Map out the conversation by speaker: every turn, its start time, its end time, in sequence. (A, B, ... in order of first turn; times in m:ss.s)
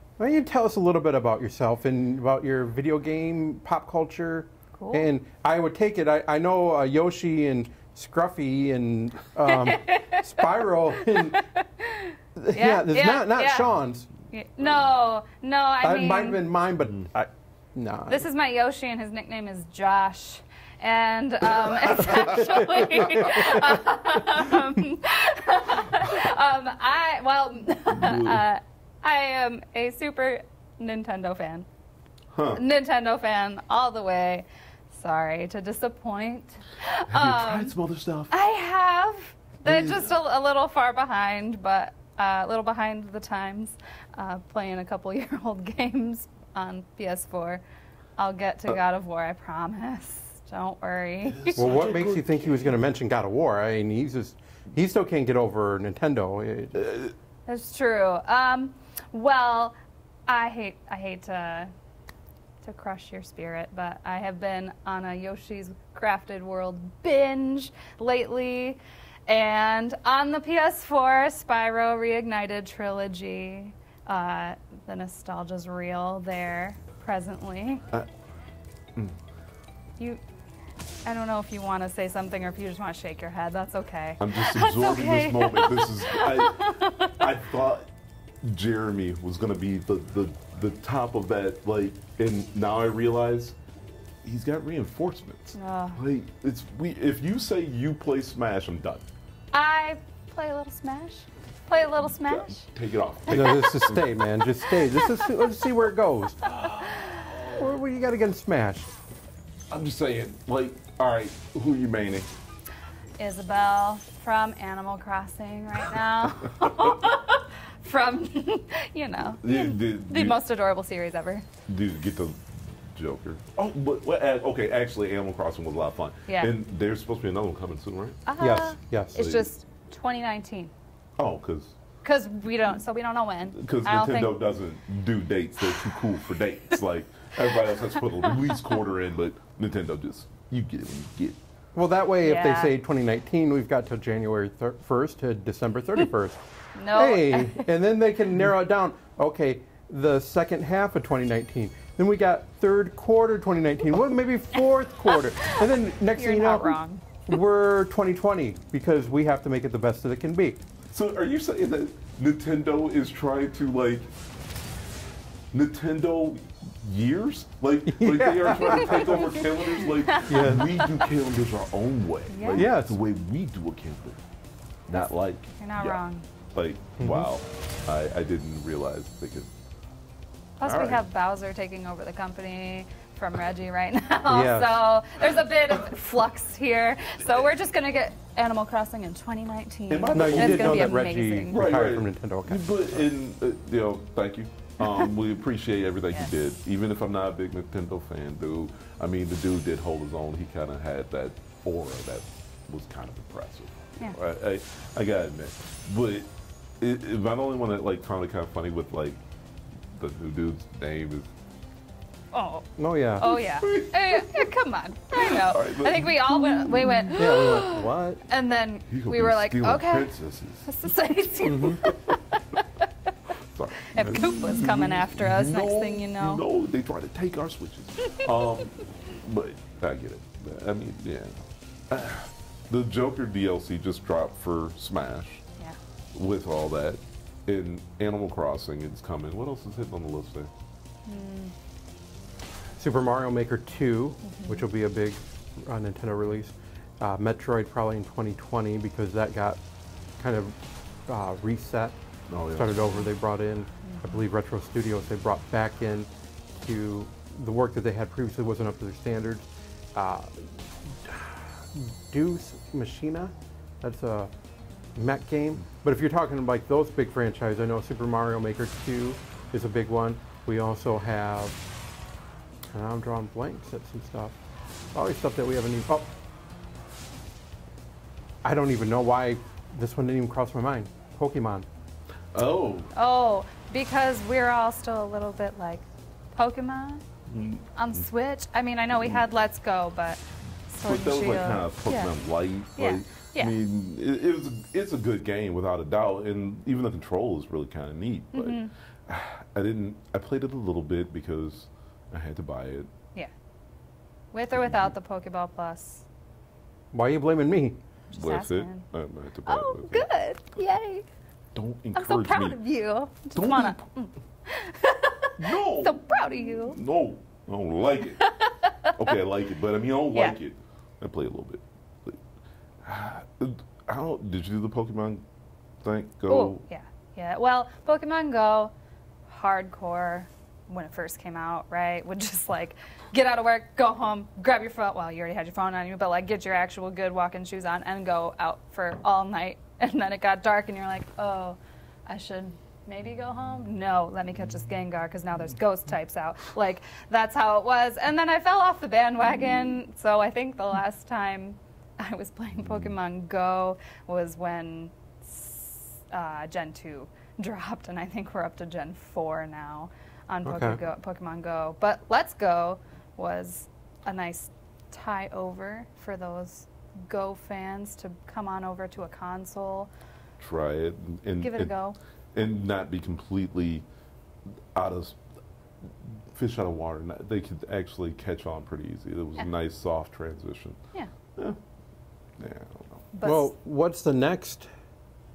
0:00.2-0:11.4 A
0:04.8-0:05.1 B
0:09.5-0:10.3 B
0:11.0-0:13.8 B
0:12.4-0:14.1 A
0:14.3-0:16.4 B
0:15.8-0:18.2 A
0:18.1-0:31.6 B
0:22.0-0:23.8 A
0:27.9-0:28.4 C
0:32.3-0:32.6 C
0:32.5-0:37.7 B
0:37.1-0:38.3 C
0:38.3-0:47.6 B
0:39.6-0:40.1 C
0:48.2-0:51.7 B
0:51.3-0:52.6 C
0:51.6-0:56.9 A
0:56.8-0:57.1 C
0:57.5-0:59.8 B
1:00.3-1:01.7 B
1:02.6-1:17.8 B
1:21.0-1:27.1 B
1:24.2-1:27.9 C
1:28.4-1:33.6 C
1:34.2-1:39.0 C
1:35.5-1:36.0 B
1:39.5-1:42.6 B
1:42.2-1:44.1 C
1:43.3-1:46.4 A
1:46.5-1:47.4 C
1:46.8-1:47.3 B
1:47.5-1:48.9 A
1:49.7-1:52.3 C
1:53.2-2:01.4 B
1:59.4-2:00.4 C
2:01.7-2:08.2 C
2:08.3-2:10.7 B
2:08.4-2:09.1 A
2:09.1-2:09.5 C
2:11.2-2:11.8 C
2:12.0-2:14.3 B
2:13.5-2:21.4 C
2:15.6-2:16.0 B
2:17.9-2:18.6 B
2:21.7-2:26.4 A
2:22.2-2:22.7 B
2:26.7-2:27.7 B
2:26.9-2:40.6 A
2:35.1-2:37.3 B
2:40.9-2:44.1 C
2:45.5-2:54.2 C
2:47.9-2:49.3 A
2:48.6-2:50.8 B
2:50.3-2:50.7 A
2:52.3-2:52.7 B
2:52.5-2:53.0 A
2:54.9-2:56.0 C
2:55.6-2:56.2 B
2:56.5-2:59.5 C
2:57.0-2:57.3 A
3:00.6-3:11.6 B
3:00.6-3:01.0 C
3:04.3-3:04.7 A
3:09.9-3:26.3 C
3:10.1-3:13.0 A
3:26.8-3:29.2 C
3:29.9-3:31.3 C
3:32.3-3:32.7 B
3:32.8-3:33.2 A
3:33.2-3:40.1 B
3:33.3-3:34.5 C
3:35.3-3:36.2 C
3:37.1-3:38.2 A
3:38.9-3:40.7 C
3:40.6-3:42.4 B
3:41.4-3:41.8 A
3:43.5-3:55.4 C
3:43.9-3:46.4 B
3:56.1-4:00.5 C
4:01.0-4:01.5 B
4:02.8-4:09.6 A
4:04.2-4:04.6 B
4:10.2-4:10.6 A
4:11.1-4:11.9 A
4:12.3-4:12.8 C
4:12.5-4:16.1 A
4:13.8-4:14.2 B
4:16.6-4:24.3 A
4:25.0-4:31.6 A
4:32.7-4:34.3 A
4:34.9-4:36.1 A
4:38.4-4:41.7 A
4:42.3-4:42.9 C
4:42.9-4:47.0 B
4:47.3-4:48.1 C
4:47.8-4:52.1 B
4:49.0-4:49.2 C
4:50.8-5:02.9 C
4:52.8-4:53.5 B
4:58.3-4:58.7 B
5:04.3-5:06.0 B
5:06.9-5:07.8 A
5:08.1-5:08.9 B
5:08.2-5:10.0 C
5:09.5-5:11.0 B
5:11.5-5:12.6 C
5:11.9-5:16.8 B
5:13.3-5:13.8 C
5:15.4-5:18.2 C
5:18.2-5:18.9 B
5:18.9-5:22.2 C
5:22.8-5:25.2 C
5:25.8-5:26.6 C
5:26.3-5:28.7 B
5:29.3-6:09.9 B
6:00.4-6:00.8 A
6:10.4-6:11.8 C
6:11.4-6:12.0 B
6:12.3-6:13.8 C
6:14.7-6:15.2 C
6:16.0-6:20.8 C
6:22.4-6:23.0 C
6:23.1-6:23.5 B
6:23.2-6:24.7 A